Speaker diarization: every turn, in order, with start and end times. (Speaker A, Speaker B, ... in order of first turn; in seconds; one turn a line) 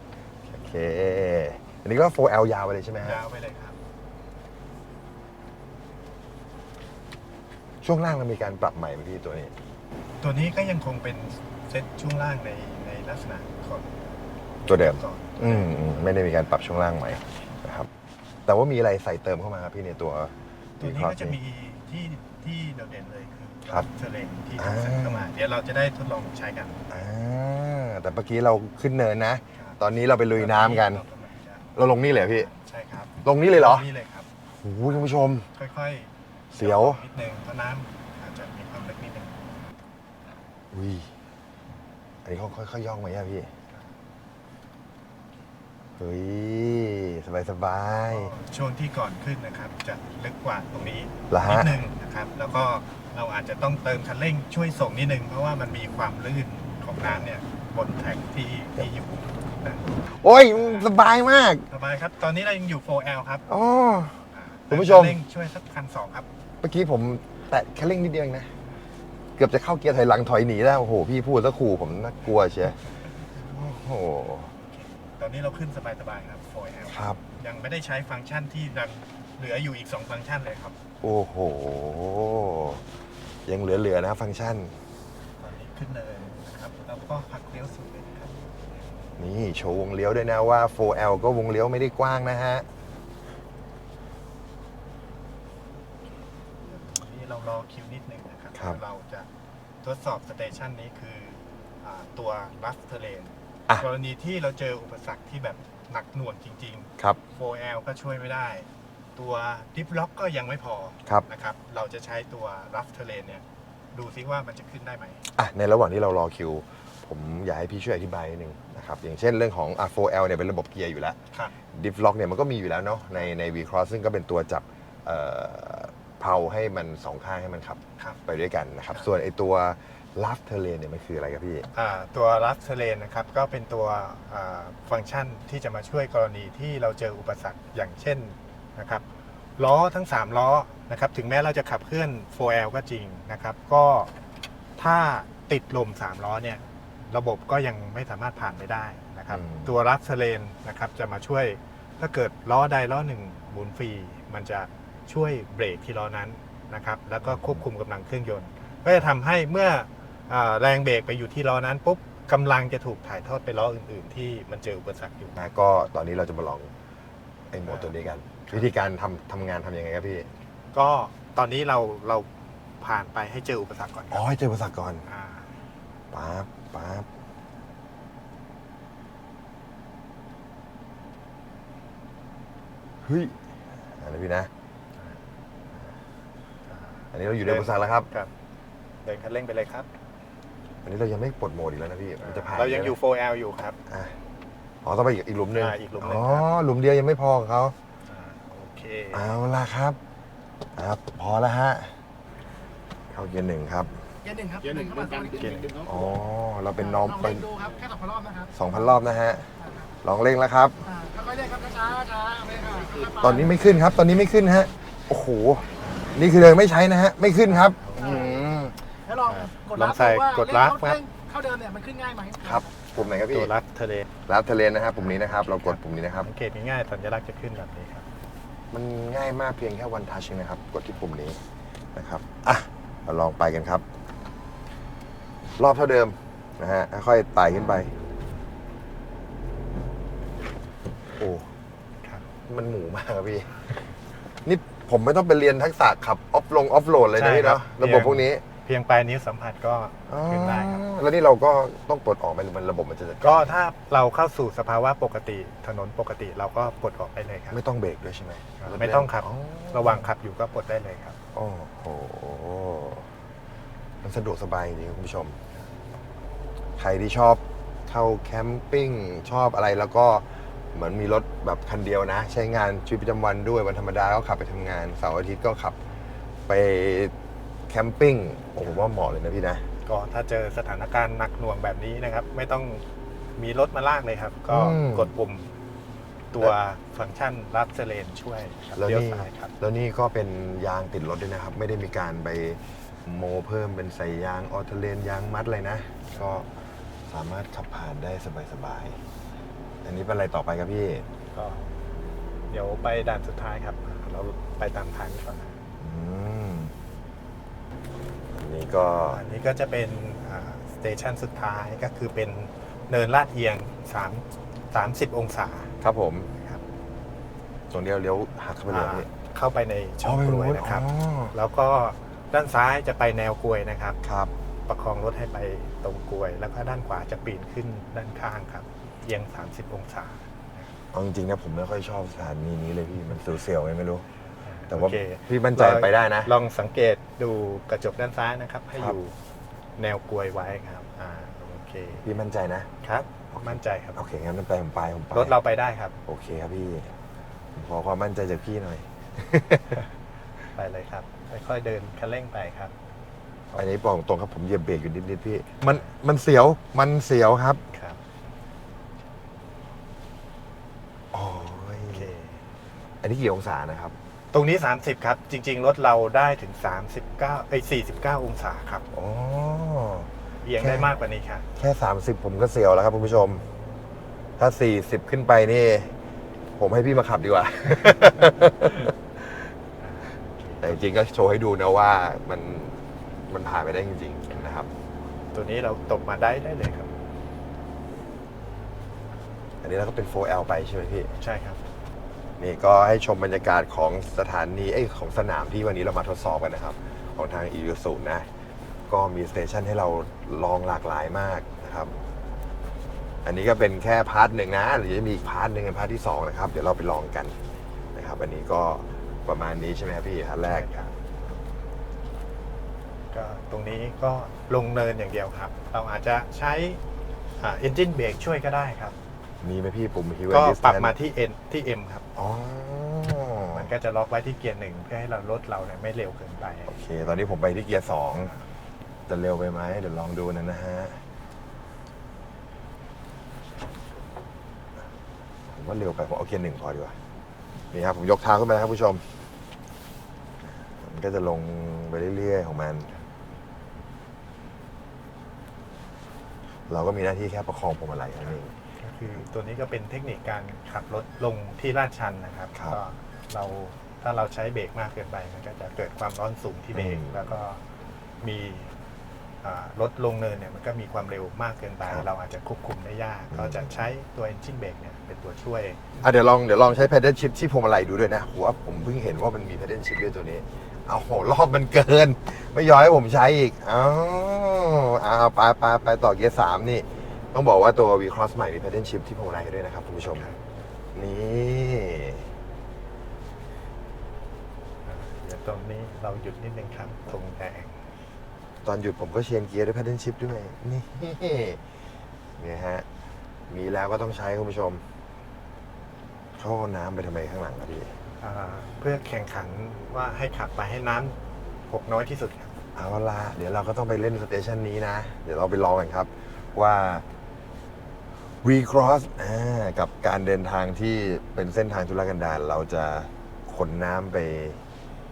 Speaker A: 0.5-3.2
Speaker B: 3.0-3.8
Speaker A: 7.8-9.5
Speaker B: 10.2-14.1
Speaker B: 14.6-15.7
Speaker A: 14.7-17.9
Speaker A: 18.5-21.4
Speaker B: 20.8-26.8
Speaker A: 24.6-25.3
Speaker A: 26.9-31.0
Speaker B: 30.4-31.7
Speaker A: 31.8-32.5
Speaker B: 32.3-34.3
Speaker A: 33.2-33.9
Speaker A: 34.5-35.5
Speaker B: 35.5-39.4
Speaker A: 36.5-37.0
Speaker A: 40.7-41.1
Speaker A: 42.2-43.5
Speaker A: 46.0-48.4
Speaker B: 48.1-60.9
Speaker A: 51.3-51.9
Speaker A: 57.0-57.3
Speaker A: 60.1-61.7
Speaker B: 61.7-63.5
Speaker A: 63.5-65.2
Speaker B: 64.3-66.3
Speaker A: 66.6-68.5
Speaker A: 69.4-72.8
Speaker A: 73.4-74.5
Speaker B: 74.6-80.8
Speaker A: 76.8-77.2
Speaker A: 81.0-82.8
Speaker A: 83.5-84.8
Speaker B: 85.4-88.3
Speaker A: 89.2-92.7
Speaker B: 96.7-99.3
Speaker A: 98.5-98.8
Speaker B: 99.8-113.4
Speaker B: 113.9-115.2
Speaker A: 115.3-121.2
Speaker A: 121.7-131.7
Speaker B: 131.7-139.1
Speaker B: 139.6-144.1
Speaker B: 144.8-165.4
Speaker A: 149.3-149.8
Speaker A: 157.2-157.6
Speaker A: 165.4-166.7
Speaker A: 167.5-170.3
Speaker B: 167.7-167.9
Speaker B: 170.7-174.2
Speaker A: 174.1-175.1
Speaker B: 175.1-175.5
Speaker A: 176.1-177.1
Speaker A: 183.0-184.5
Speaker B: 186.7-188.3
Speaker A: 187.1-188.1
Speaker B: 189.0-189.9
Speaker A: 190.8-193.0
Speaker B: 192.2-193.8
Speaker A: 193.9-194.2
Speaker A: 194.8-197.8
Speaker B: 195.6-196.5
Speaker B: 198.1-199.3
Speaker A: 199.1-200.0
Speaker A: 200.8-201.9
Speaker A: 203.1-204.1
Speaker C: 204.3-205.3
Speaker B: 205.3-205.8
Speaker A: 205.8-207.5
Speaker C: 207.3-208.5
Speaker A: 208.5-209.5
Speaker A: 210.0-210.8
Speaker C: 211.0-213.2
Speaker A: 213.1-218.8
Speaker B: 217.4-218.4
Speaker C: 219.1-219.7
Speaker B: 219.3-221.0
Speaker C: 221.0-222.5
Speaker A: 222.4-223.5
Speaker B: 222.9-224.1
Speaker A: 224.3-226.3
Speaker B: 225.0-228.1
Speaker A: 228.7-231.4
Speaker A: 231.9-233.8
Speaker A: 235.6-237.9
Speaker A: 241.2-241.5
Speaker A: 242.5-243.6
Speaker A: 244.4-248.4
Speaker B: 247.2-250.8
Speaker A: 250.1-253.6
Speaker B: 253.2-257.6
Speaker A: 257.5-260.1
Speaker B: 258.6-261.2
Speaker A: 261.3-263.1
Speaker A: 264.0-265.4
Speaker A: 266.8-275.8
Speaker A: 276.5-277.1
Speaker A: 277.7-279.6
Speaker B: 279.9-282.8
Speaker B: 283.4-285.5
Speaker A: 284.5-285.1
Speaker B: 286.3-289.5
Speaker A: 288.8-296.5
Speaker A: 297.1-299.0
Speaker A: 299.8-301.1
Speaker B: 301.3-301.9
Speaker B: 302.5-305.6
Speaker A: 305.8-306.7
Speaker A: 308.3-309.2
Speaker B: 309.1-315.7
Speaker A: 315.8-316.3
Speaker B: 316.3-316.6
Speaker A: 317.7-319.1
Speaker B: 318.7-324.0
Speaker A: 320.0-321.3
Speaker A: 324.0-324.3
Speaker B: 324.7-330.7
Speaker A: 330.9-334.1
Speaker B: 334.4-339.1
Speaker A: 334.7-336.3
Speaker B: 339.8-342.1
Speaker A: 342.0-342.7
Speaker B: 342.8-344.0
Speaker A: 343.3-345.4
Speaker B: 345.1-346.0
Speaker A: 346.1-346.9
Speaker A: 347.6-349.8
Speaker B: 350.5-352.7
Speaker A: 353.5-357.6
Speaker B: 357.7-358.0
Speaker A: 361.1-362.1
Speaker B: 361.9-362.4
Speaker A: 363.0-363.9
Speaker B: 364.3-368.8
Speaker A: 368.9-370.9
Speaker B: 370.4-371.5
Speaker A: 371.6-373.4
Speaker A: 374.4-375.9
Speaker A: 376.6-379.3
Speaker B: 379.8-380.8
Speaker A: 380.6-384.7
Speaker B: 385.3-386.9
Speaker A: 389.6-391.1
Speaker B: 391.2-391.6
Speaker A: 392.4-398.3
Speaker A: 398.9-402.0
Speaker A: 403.2-407.4
Speaker A: 407.9-410.8
Speaker B: 410.5-410.9
Speaker B: 413.1-416.8
Speaker B: 417.4-419.0
Speaker A: 419.4-420.9
Speaker B: 420.3-422.1
Speaker A: 422.2-423.7
Speaker B: 423.5-427.4
Speaker A: 426.7-428.3
Speaker B: 428.2-428.4
Speaker A: 429.1-431.0
Speaker A: 435.5-437.0
Speaker A: 437.7-439.0
Speaker A: 440.7-442.9
Speaker A: 446.7-448.6
Speaker B: 448.8-457.6
Speaker A: 456.8-457.3
Speaker B: 458.2-458.7
Speaker B: 459.4-465.9
Speaker A: 463.3-463.9
Speaker A: 466.0-480.3
Speaker B: 480.1-480.4
Speaker A: 480.9-482.3
Speaker B: 484.9-487.8
Speaker A: 488.6-491.6
Speaker A: 492.4-492.9
Speaker A: 493.5-494.8
Speaker A: 496.4-497.9
Speaker B: 498.2-501.2
Speaker B: 501.7-502.5
Speaker A: 502.8-507.1
Speaker A: 508.4-514.6